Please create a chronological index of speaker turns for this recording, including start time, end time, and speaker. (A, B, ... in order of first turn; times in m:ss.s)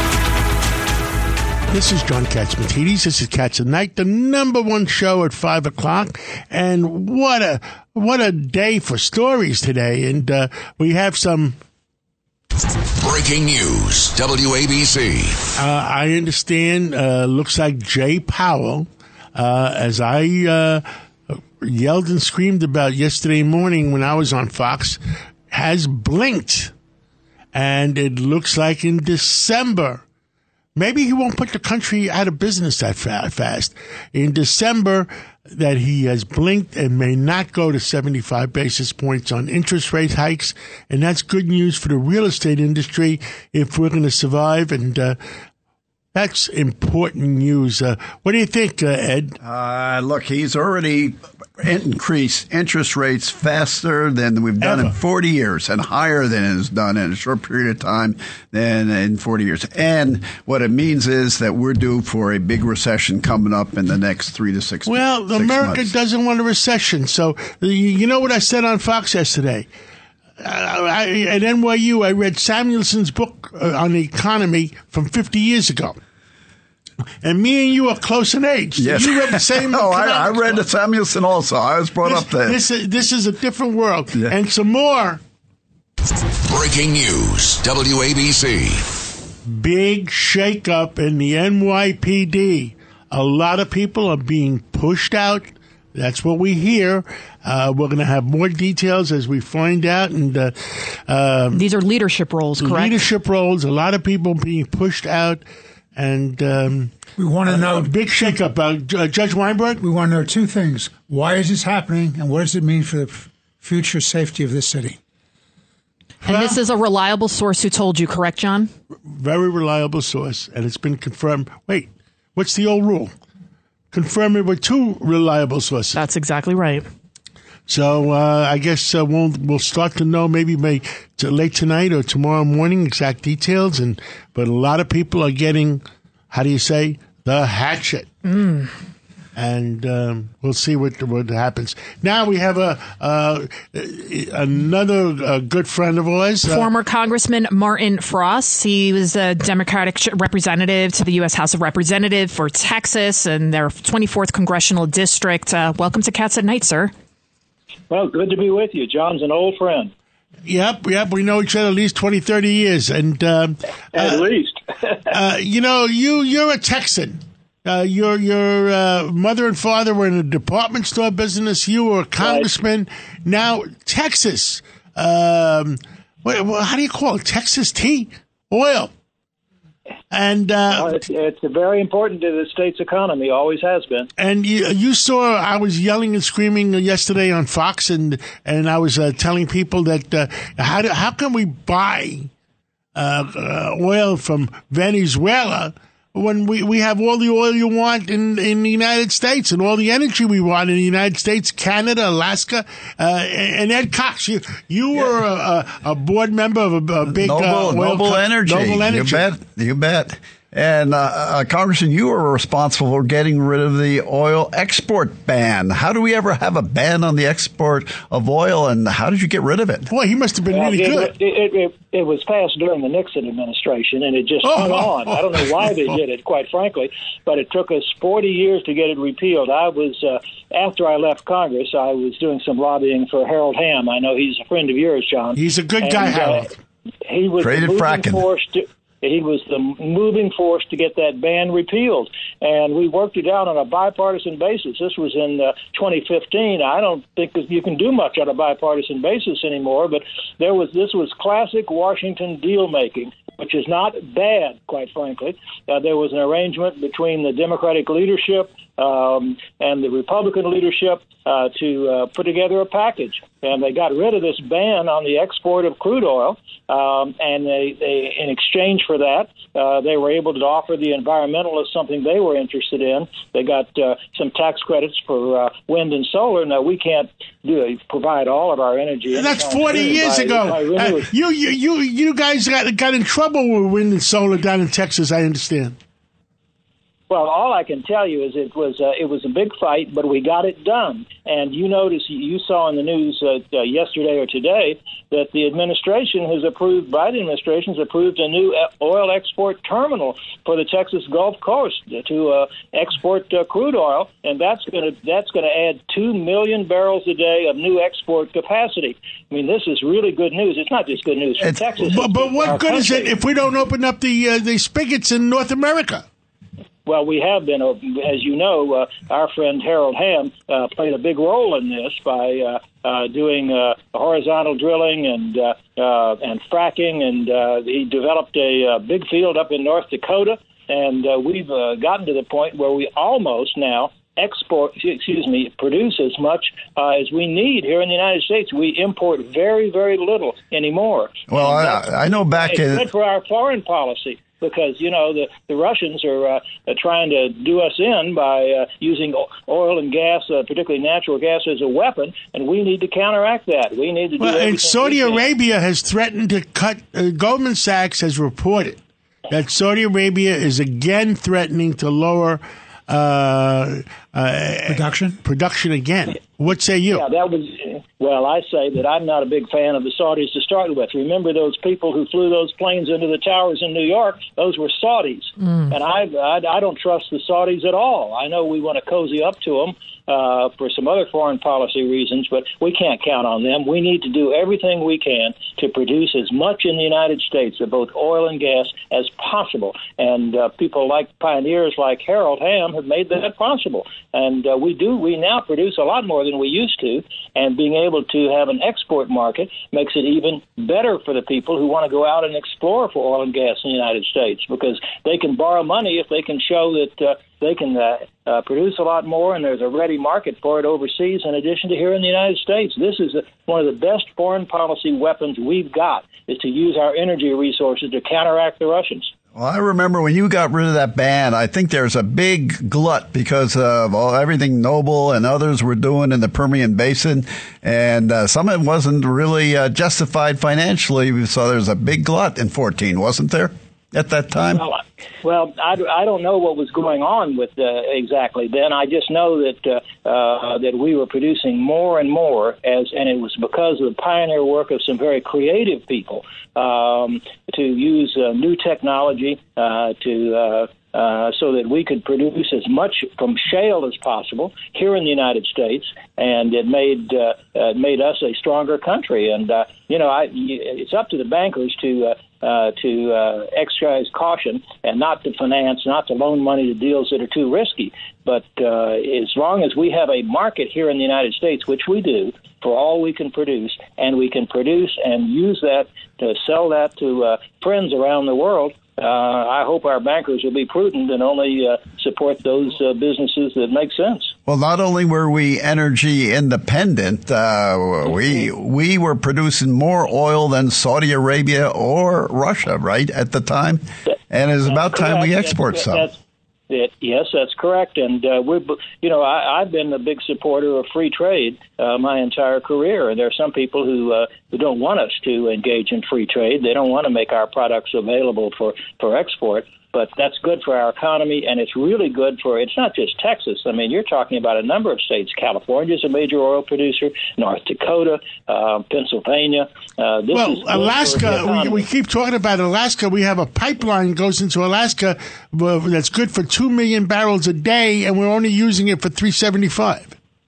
0:01.7-0:11.6 A
0:13.0-0:15.4 B
0:15.6-0:25.0 A
0:25.5-0:26.7 A
0:27.5-0:30.0 A
0:30.8-0:45.2 A
0:46.1-0:49.4 A
0:49.4-1:05.9 C
0:54.6-0:54.9 A
1:04.9-1:09.7 A
1:10.4-1:16.0 A
1:17.2-1:20.6 A
1:18.8-1:22.6 C
1:22.0-1:25.2 A
1:26.5-1:28.8 B
1:29.5-1:41.6 A
1:41.5-1:43.0 D
1:42.6-1:45.4 A
1:45.9-1:46.9 A
1:47.2-1:48.4 E
1:47.5-1:49.8 A
1:49.8-1:55.0 E
1:56.2-1:56.6 A
1:56.2-1:58.7 D
1:59.1-2:03.1 A
2:03.9-2:06.0 A
2:05.9-2:06.8 D
2:07.7-2:18.1 A
2:18.3-2:18.7 D
2:19.4-2:26.7 A
2:26.4-2:36.9 D
2:37.9-2:39.9 F
2:40.4-2:44.3 A
2:44.0-2:44.6 F
2:45.1-2:58.9 A
2:52.2-2:52.5 F
3:00.1-3:01.0 A
3:00.6-3:04.1 F
3:04.2-3:12.3 A
3:12.9-3:29.3 A
3:27.1-3:39.9 C
3:39.9-3:41.1 A
3:40.5-3:56.5 F
3:44.4-3:45.6 A
3:55.4-3:56.5 A
3:57.0-4:41.1 F
3:57.4-3:58.2 C
4:39.1-4:45.8 A
4:47.1-5:13.1 F
5:11.8-5:16.0 A
5:16.8-5:55.3 F
5:41.3-5:42.8 C
5:54.2-6:07.1 A
6:04.7-6:05.2 E
6:06.9-6:59.1 F
6:59.3-7:14.6 C
7:14.5-8:04.3 F
8:04.5-8:16.1 C
8:14.6-8:16.2 F
8:16.7-8:41.8 F
8:40.3-8:50.2 A